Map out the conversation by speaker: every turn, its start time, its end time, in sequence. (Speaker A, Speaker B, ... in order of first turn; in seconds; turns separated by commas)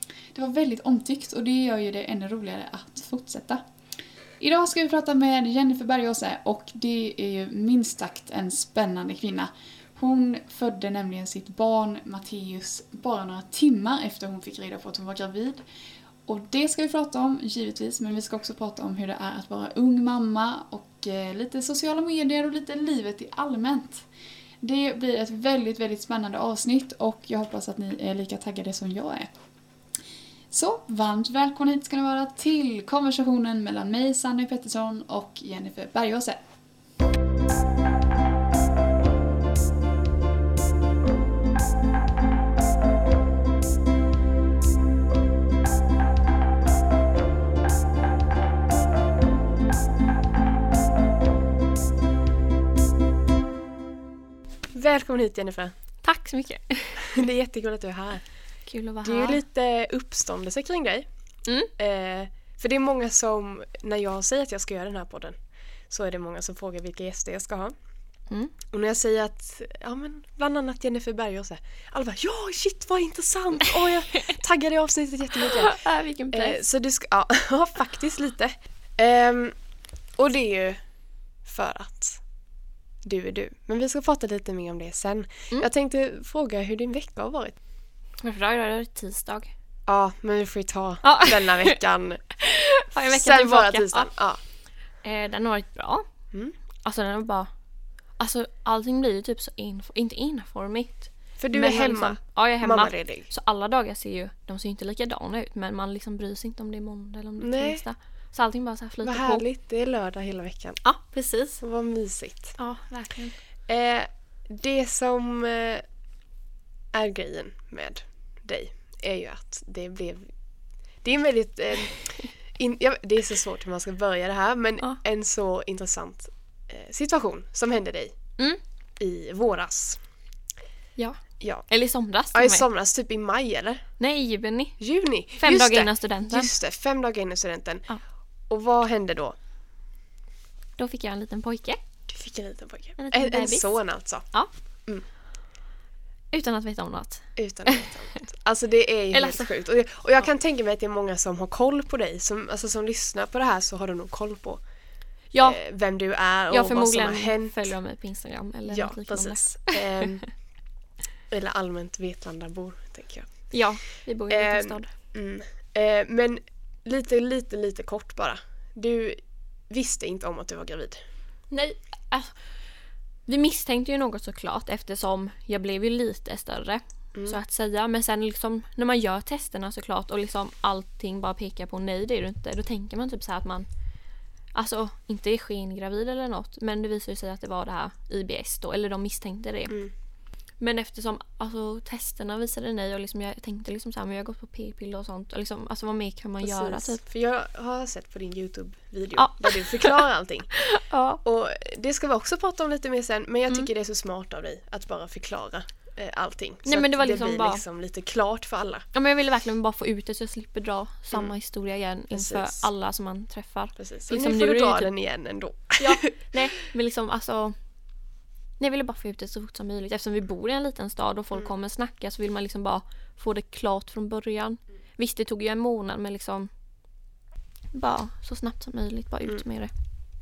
Speaker A: 0.3-3.6, Speaker A: 4.4-15.6, Speaker A: 16.3-24.1, Speaker A: 24.6-29.3, Speaker A: 30.5-36.4, Speaker B: 54.7-55.7, Speaker C: 56.0-57.2, Speaker B: 57.0-58.2, Speaker C: 58.6-59.4, Speaker B: 59.0-61.1, Speaker B: 61.8-65.4, Speaker B: 65.9-67.7, Speaker B: 68.7-75.8, Speaker C: 75.4-76.6, Speaker B: 76.3-79.5, Speaker B: 80.2-80.8, Speaker B: 81.4-82.2, Speaker B: 83.0-87.5, Speaker C: 88.2-89.5, Speaker B: 89.9-92.2, Speaker C: 91.0-91.8, Speaker C: 92.4-94.1, Speaker B: 93.0-94.4, Speaker C: 95.0-96.0, Speaker C: 96.8-97.5, Speaker C: 98.2-109.4, Speaker B: 101.4-103.3, Speaker B: 107.4-107.8, Speaker B: 109.0-110.8, Speaker C: 110.8-111.6, Speaker B: 111.6-112.6, Speaker C: 112.6-113.3, Speaker B: 113.7-115.8, Speaker B: 116.9-120.3, Speaker B: 121.0-128.2, Speaker B: 129.0-130.0, Speaker C: 131.0-132.6, Speaker B: 131.4-131.7, Speaker B: 132.3-133.8, Speaker C: 134.0-134.8, Speaker B: 134.8-137.8, Speaker C: 135.4-136.5, Speaker B: 138.5-139.4, Speaker C: 140.8-141.8, Speaker B: 142.1-144.2, Speaker C: 143.0-143.8, Speaker C: 146.3-148.2, Speaker B: 147.4-154.6, Speaker C: 149.1-149.5, Speaker C: 155.3-155.6, Speaker B: 155.4-157.7, Speaker C: 156.5-160.3, Speaker B: 158.7-160.2, Speaker B: 161.3-163.3, Speaker C: 163.5-164.9, Speaker B: 164.3-171.0, Speaker C: 171.5-172.3, Speaker C: 173.3-183.7, Speaker C: 184.5-189.8, Speaker C: 190.6-197.0, Speaker B: 196.4-200.5, Speaker C: 199.2-201.2, Speaker B: 201.2-208.8, Speaker C: 206.7-207.6, Speaker C: 208.9-214.9, Speaker B: 212.1-212.6, Speaker B: 213.8-216.1, Speaker C: 215.8-217.6, Speaker C: 218.6-226.5, Speaker C: 227.7-229.7